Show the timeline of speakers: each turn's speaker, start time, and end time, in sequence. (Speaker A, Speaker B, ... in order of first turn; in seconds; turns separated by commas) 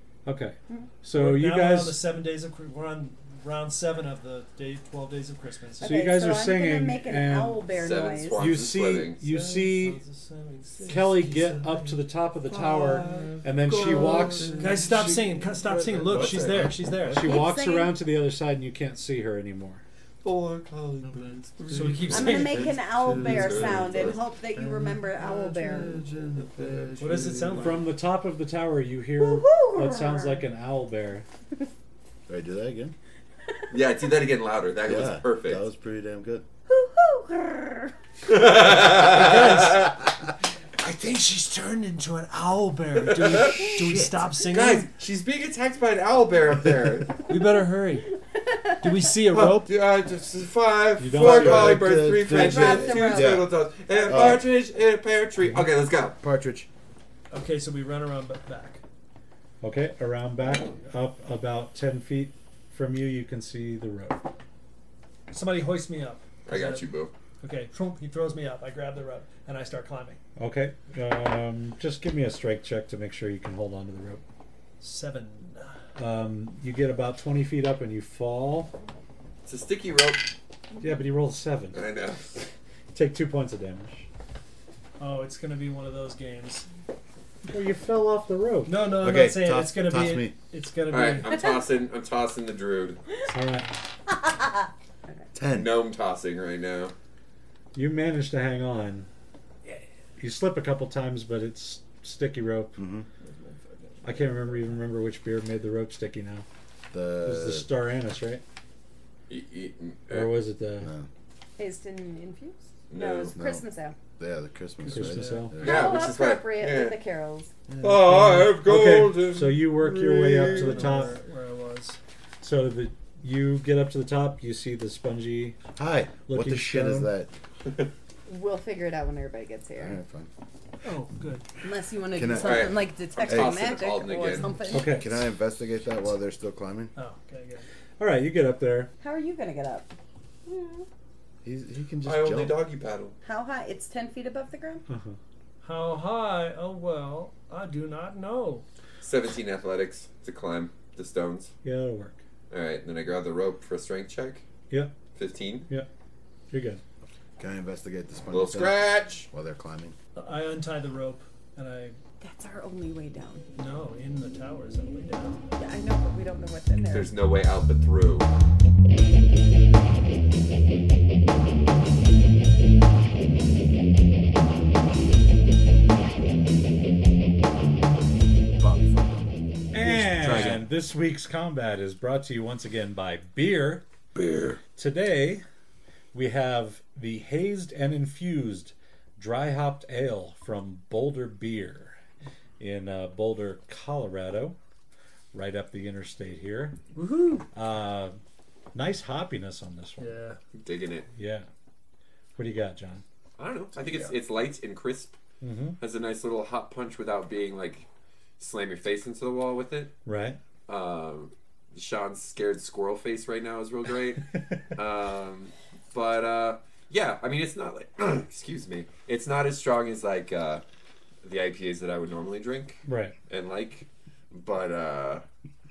Speaker A: 0.2-2.0, Speaker B: 1.1-6.1, Speaker A: 5.8-7.7, Speaker C: 5.8-8.5, Speaker D: 7.7-11.9, Speaker A: 8.3-10.0, Speaker A: 10.9-15.1, Speaker D: 12.5-14.8, Speaker E: 14.1-14.5, Speaker B: 14.6-17.3, Speaker E: 15.7-17.4, Speaker D: 15.9-16.6, Speaker A: 17.1-19.8, Speaker C: 17.2-17.9, Speaker D: 20.2-22.4, Speaker E: 21.0-27.8, Speaker B: 21.7-22.8, Speaker C: 22.1-26.0, Speaker D: 23.1-24.2, Speaker D: 25.8-27.6, Speaker B: 27.0-27.9, Speaker A: 27.6-31.2, Speaker C: 29.2-30.4, Speaker E: 32.3-32.9, Speaker D: 33.7-35.6, Speaker E: 34.8-36.4, Speaker C: 36.7-37.9, Speaker D: 38.3-39.8, Speaker B: 38.7-40.0, Speaker B: 40.8-44.9, Speaker D: 43.0-47.2, Speaker E: 43.8-44.1, Speaker B: 47.3-48.1, Speaker C: 48.3-49.0, Speaker B: 48.8-49.7, Speaker D: 49.3-56.2, Speaker A: 51.0-52.0, Speaker E: 51.1-54.5, Speaker C: 52.3-53.4, Speaker E: 56.2-56.7, Speaker B: 57.3-58.8, Speaker A: 59.6-64.2, Speaker B: 65.3-66.9, Speaker D: 66.5-67.1, Speaker B: 67.4-70.2, Speaker A: 70.4-74.2, Speaker B: 74.8-75.7, Speaker A: 76.0-78.7, Speaker D: 79.5-80.3, Speaker A: 80.8-81.8, Speaker D: 81.7-82.4, Speaker A: 82.9-84.1, Speaker B: 85.0-86.7, Speaker A: 87.5-88.8, Speaker B: 88.7-91.3, Speaker E: 88.9-90.3, Speaker D: 90.9-93.0, Speaker A: 93.3-93.8, Speaker C: 94.1-94.5, Speaker E: 95.3-95.7, Speaker D: 95.5-96.9, Speaker A: 97.7-99.1, Speaker A: 99.7-102.8, Speaker E: 102.8-103.1, Speaker B: 103.2-104.8, Speaker A: 104.0-106.4, Speaker E: 106.9-107.7, Speaker A: 107.2-108.4, Speaker D: 109.3-110.3, Speaker A: 110.1-110.9, Speaker E: 110.8-111.1, Speaker C: 111.6-114.0, Speaker D: 112.9-113.3, Speaker E: 113.3-113.6, Speaker E: 114.2-115.8, Speaker B: 114.8-115.5, Speaker A: 114.9-115.6, Speaker D: 115.6-117.0, Speaker C: 115.6-117.5, Speaker D: 117.8-120.9, Speaker A: 118.1-121.2, Speaker B: 120.4-122.0, Speaker A: 122.4-125.6, Speaker E: 125.8-127.3, Speaker A: 126.3-127.1, Speaker C: 128.3-130.0, Speaker E: 129.8-130.3, Speaker B: 130.8-131.5, Speaker C: 131.6-134.9, Speaker E: 132.1-133.7, Speaker D: 132.3-134.6, Speaker A: 134.7-135.2, Speaker E: 134.7-136.9, Speaker B: 136.9-137.7, Speaker A: 138.0-138.9, Speaker C: 139.0-139.9, Speaker D: 140.5-140.8, Speaker E: 141.4-142.6, Speaker D: 142.0-143.1, Speaker C: 143.2-144.8, Speaker A: 144.9-145.2, Speaker B: 145.6-148.6, Speaker D: 149.0-151.5, Speaker A: 151.6-152.2, Speaker D: 152.5-154.4, Speaker D: 155.1-155.7, Speaker A: 156.5-156.8, Speaker E: 157.4-159.9, Speaker D: 158.3-159.3, Speaker B: 160.1-162.0, Speaker C: 162.2-163.4, Speaker B: 163.6-165.4, Speaker C: 165.6-167.1, Speaker D: 166.9-168.3, Speaker E: 178.6-179.3, Speaker A: 179.7-183.8, Speaker E: 179.8-180.6, Speaker E: 184.1-184.6, Speaker A: 184.8-185.4, Speaker A: 186.1-192.0, Speaker A: 192.6-194.6, Speaker A: 195.3-196.8, Speaker B: 196.9-197.4, Speaker A: 197.5-198.2, Speaker A: 198.7-200.1, Speaker B: 200.0-200.4, Speaker D: 200.5-201.1, Speaker A: 201.1-201.5, Speaker A: 202.4-203.0, Speaker D: 203.4-205.2, Speaker A: 205.4-205.8, Speaker D: 205.8-207.9, Speaker D: 208.4-209.9, Speaker A: 210.0-210.4, Speaker D: 210.7-220.6, Speaker D: 221.2-225.2, Speaker A: 222.8-223.1